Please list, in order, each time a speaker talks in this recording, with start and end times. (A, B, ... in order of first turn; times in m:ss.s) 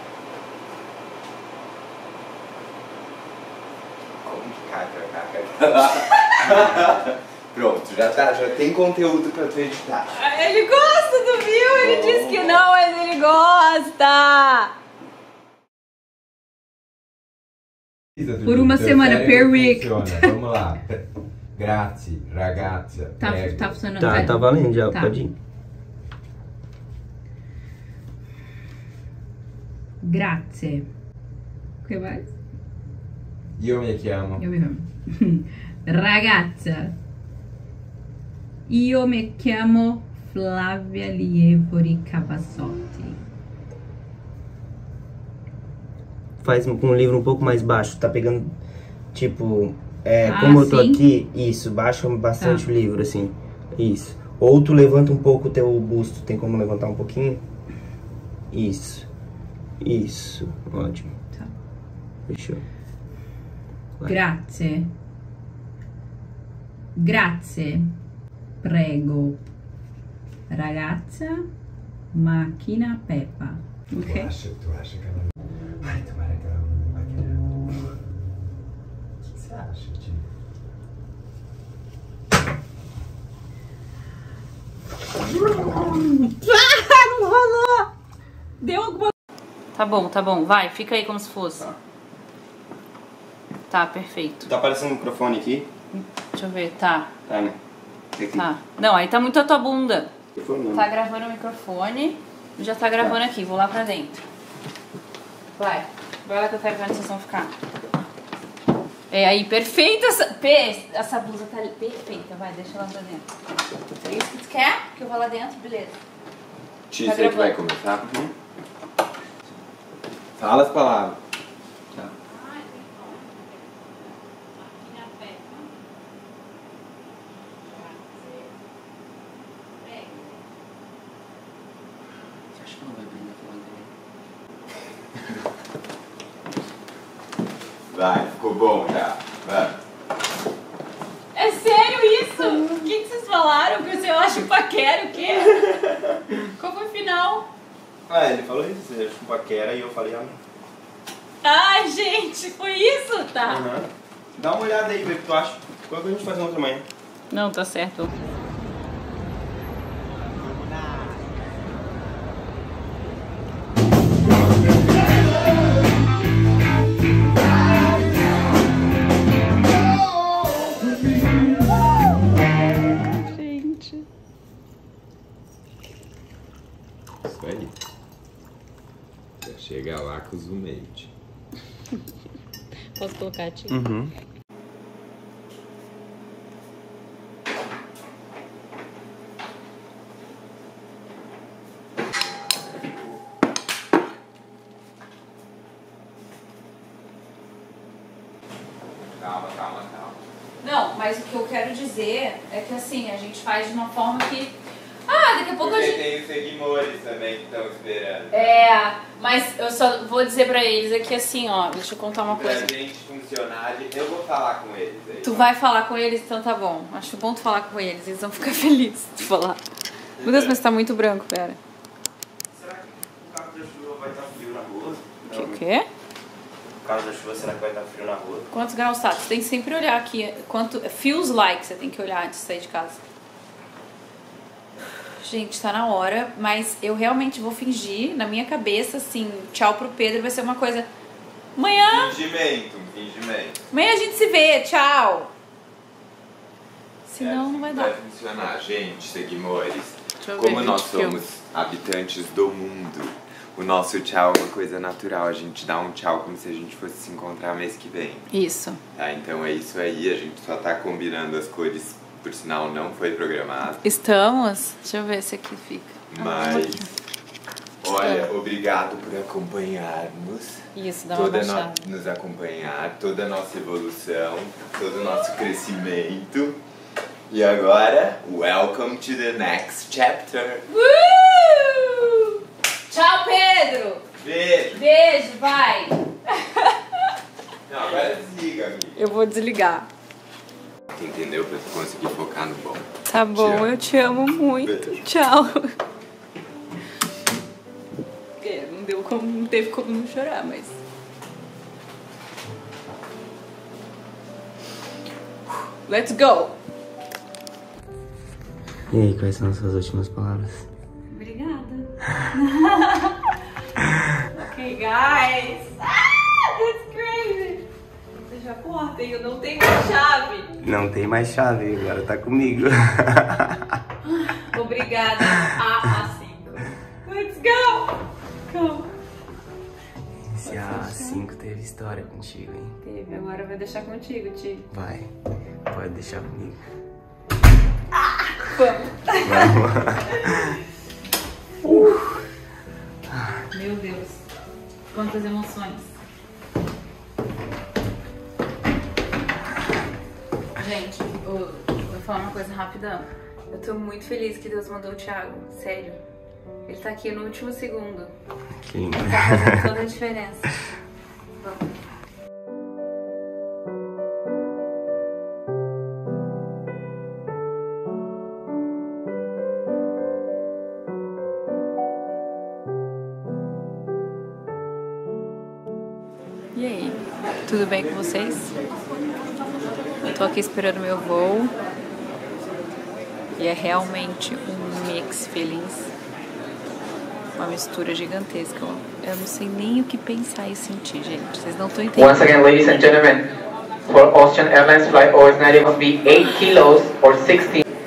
0:04.2-0:10.2 A
0:10.1-0:14.7 B
0:11.7-0:12.6 C
0:18.2-0:21.0 A
0:18.4-0:20.4 B
0:21.5-0:23.6 A
0:23.2-0:25.2 B
0:24.0-0:25.3 C
0:30.0-0:30.9 B
0:31.8-0:32.3 B
0:33.6-0:34.4 A
0:34.4-0:37.0 B
0:38.7-0:43.2 B
0:46.4-0:48.5 C
0:49.1-0:57.4 C
0:50.3-0:51.0 B
0:52.4-0:52.7 B
0:58.5-0:59.1 C
0:59.8-1:01.2 C
1:02.3-1:02.6 C
1:04.0-1:04.9 B
1:07.0-1:07.9 B
1:08.6-1:09.4 B
1:10.5-1:11.5 B
1:12.1-1:14.3 B
1:14.0-1:15.3 A
1:15.8-1:17.4 A
1:19.3-1:20.2 A
1:25.3-1:27.9 B
1:28.6-1:29.1 B
1:29.7-1:31.8 B
1:33.7-1:34.5 B
1:34.4-1:35.7 C
1:35.9-1:37.1 B
1:37.3-1:37.6 C
1:38.2-1:38.5 C
1:38.3-1:40.1 B
1:40.3-1:40.9 C
1:40.7-1:44.2 B
1:45.6-1:47.5 B
1:49.1-1:53.2 B
1:54.0-1:56.0 B
1:56.9-1:58.1 A
1:57.0-1:57.6 B
1:58.0-1:58.3 C
2:00.4-2:01.2 A
2:02.3-2:03.4 B
2:04.5-2:05.7 B
2:07.6-2:08.5 B
2:09.8-2:10.2 B
2:17.9-2:19.8 A
2:21.3-2:25.7 B
2:26.3-2:27.5 B
2:28.1-2:30.4 C
2:31.4-2:33.6 B
2:33.5-2:36.9 C
2:37.3-2:38.1 B
2:53.1-2:54.0 B
2:57.2-2:57.7 A
2:59.4-3:01.1 A
3:03.0-3:03.8 B
3:03.7-3:04.1 C
3:19.2-3:20.2 A
3:20.6-3:26.0 B
3:25.6-3:28.4 A
3:28.3-3:32.7 B
3:32.3-3:35.5 A
3:35.2-3:39.6 B
3:40.2-3:40.5 A
3:40.2-3:41.6 B
3:42.5-3:45.6 C
3:45.3-3:45.9 B
3:46.8-3:48.5 C
3:48.5-3:53.0 B
3:55.2-4:00.9 B
4:01.6-4:02.1 B
4:01.8-4:03.6 A
4:03.7-4:05.3 B
4:07.1-4:07.9 B
4:07.2-4:18.3 A
4:10.2-4:11.2 B
4:18.3-4:18.8 B
4:18.9-4:23.8 A
4:23.8-4:26.9 B
4:26.1-4:26.8 A
4:27.8-4:36.6 A
4:27.8-4:28.3 B
4:30.7-4:31.9 B
4:37.3-4:40.6 A
4:40.7-4:44.0 B
4:44.2-4:44.8 A
4:44.7-4:47.1 B
4:47.7-4:49.0 A
4:49.0-4:49.9 B
4:50.9-4:53.7 A
4:53.1-4:55.7 B
4:54.6-4:55.0 A
4:58.4-5:00.8 B
5:05.8-5:06.6 B
5:08.9-5:10.7 C
5:11.1-5:13.3 B
5:14.3-5:17.6 B
5:18.2-5:20.5 B
5:20.6-5:23.8 C
5:24.0-5:28.9 B
5:30.2-5:32.8 C
5:30.4-5:31.2 B
5:32.8-5:34.7 B
5:34.7-5:35.1 C
5:35.6-5:36.6 C
5:38.4-5:39.6 B
5:39.2-5:40.6 C
5:41.6-5:42.2 C
5:41.6-5:42.1 B
5:43.1-5:43.4 C
5:43.5-5:44.2 B
5:44.9-5:45.9 B
5:50.6-5:56.0 B
5:56.6-5:58.1 B
5:58.5-5:59.8 C
5:59.0-6:00.6 B
6:16.5-6:18.5 B
6:20.0-6:21.5 B
6:23.4-6:25.9 B
6:27.4-6:32.4 B
6:32.0-6:33.3 D
6:33.9-6:37.6 D